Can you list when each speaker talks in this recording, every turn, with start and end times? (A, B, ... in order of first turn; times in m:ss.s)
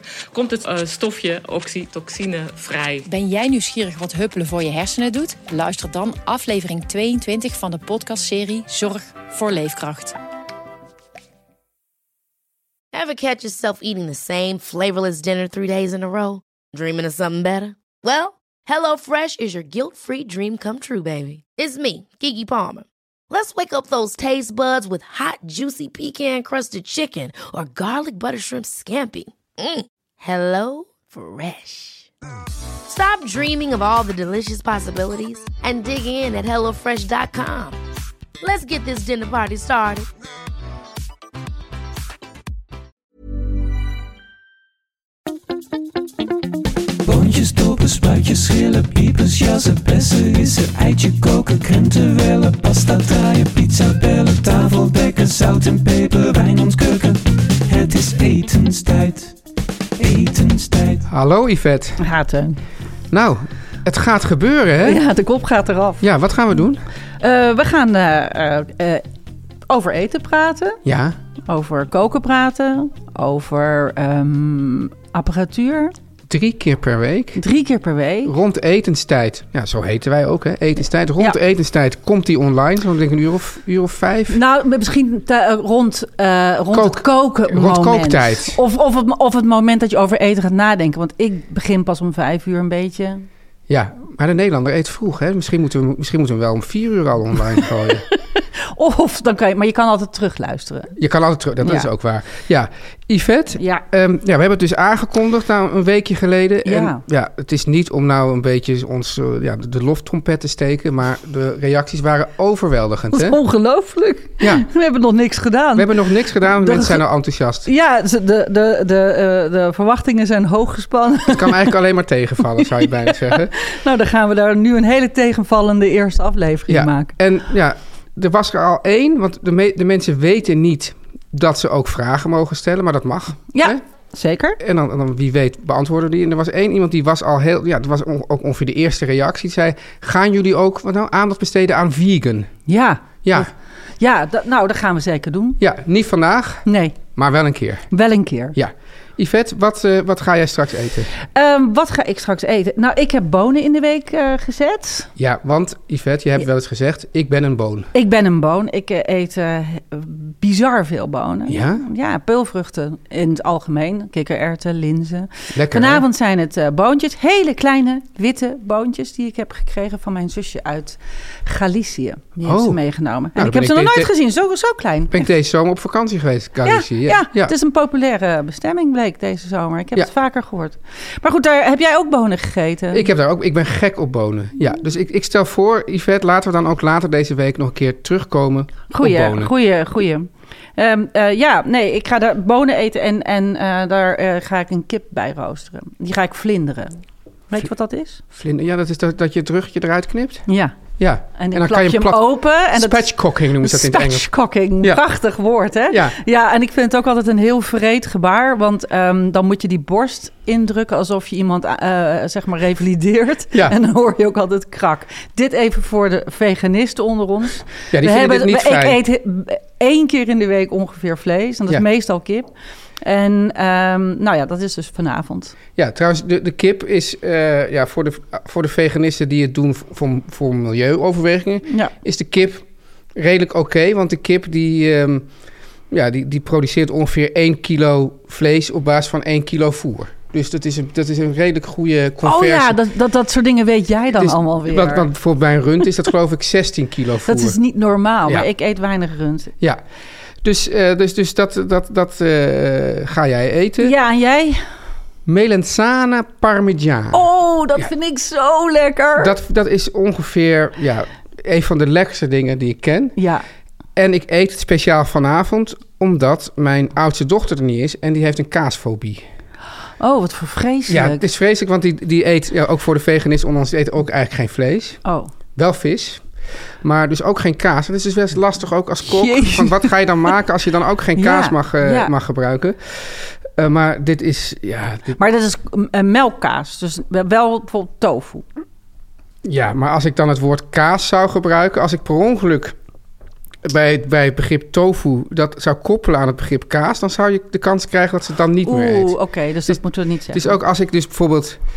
0:00.3-0:03.1 A
0:01.2-0:01.8 B
0:03.0-0:10.2 C
0:12.9-0:32.1 D
0:32.9-0:37.8 D
0:38.4-0:40.1 D
0:47.0-0:59.3 B
1:00.0-1:01.0 B
1:01.0-1:02.0 E
1:02.0-1:02.6 F
1:03.1-1:05.0 E
1:04.8-1:06.0 F
1:06.0-1:06.8 E
1:07.2-1:09.0 F
1:09.7-1:10.8 F
1:10.8-1:11.2 E
1:11.5-1:15.9 F
1:16.3-1:17.4 E
1:17.4-1:18.3 F
1:18.2-1:24.4 E
1:24.3-1:33.2 F
1:26.7-1:28.6 E
1:33.7-1:38.0 E
1:37.6-1:40.9 F
1:41.0-1:53.4 E
1:41.6-1:41.9 F
1:43.6-1:43.8 F
1:46.6-1:47.0 F
1:53.1-1:57.0 F
1:54.4-1:54.6 E
1:55.8-1:57.7 E
1:57.6-2:01.7 F
2:01.3-2:03.5 E
2:02.6-2:07.1 F
2:06.7-2:13.8 E
2:13.5-2:14.6 F
2:14.6-2:22.5 E
2:22.7-2:25.6 F
2:23.2-2:23.5 E
2:25.6-2:27.9 E
2:26.6-2:27.0 F
2:27.9-2:28.6 F
2:28.5-2:31.1 E
2:31.3-2:35.1 F
2:35.2-2:37.9 E
2:37.9-2:55.2 F
2:41.5-2:41.8 E
2:45.5-2:46.0 E
2:52.4-2:52.8 E
2:53.4-2:54.1 E
2:55.1-2:57.5 E
2:56.6-3:03.1 F
3:02.9-3:09.5 E
3:08.9-3:18.2 F
3:18.3-3:20.4 E
3:20.5-3:20.7 F
3:21.0-3:25.0 E
3:21.3-3:42.5 F
3:25.9-3:26.2 E
3:37.9-3:39.0 E
3:43.0-3:45.5 F
3:45.8-3:52.6 E
3:51.7-3:51.9 F
3:53.2-3:55.3 E
3:55.9-4:02.8 E
4:02.2-4:05.1 F
4:04.2-4:07.6 E
4:07.2-4:09.5 F
4:10.4-4:13.9 E
4:13.8-4:14.6 F
4:15.2-4:17.9 E
4:17.1-4:19.4 F
4:19.2-4:23.2 E
4:23.2-4:23.4 F
4:24.0-4:29.2 E
4:30.0-4:31.3 F
4:30.9-4:35.0 E
4:35.0-4:35.3 F
4:35.6-4:36.2 E
4:36.8-4:45.2 E
4:39.0-4:40.3 F
4:41.2-4:42.1 F
4:45.2-4:48.4 F
4:49.4-4:52.7 E
4:53.6-4:59.2 E
4:58.6-5:00.6 F
5:00.3-5:01.6 E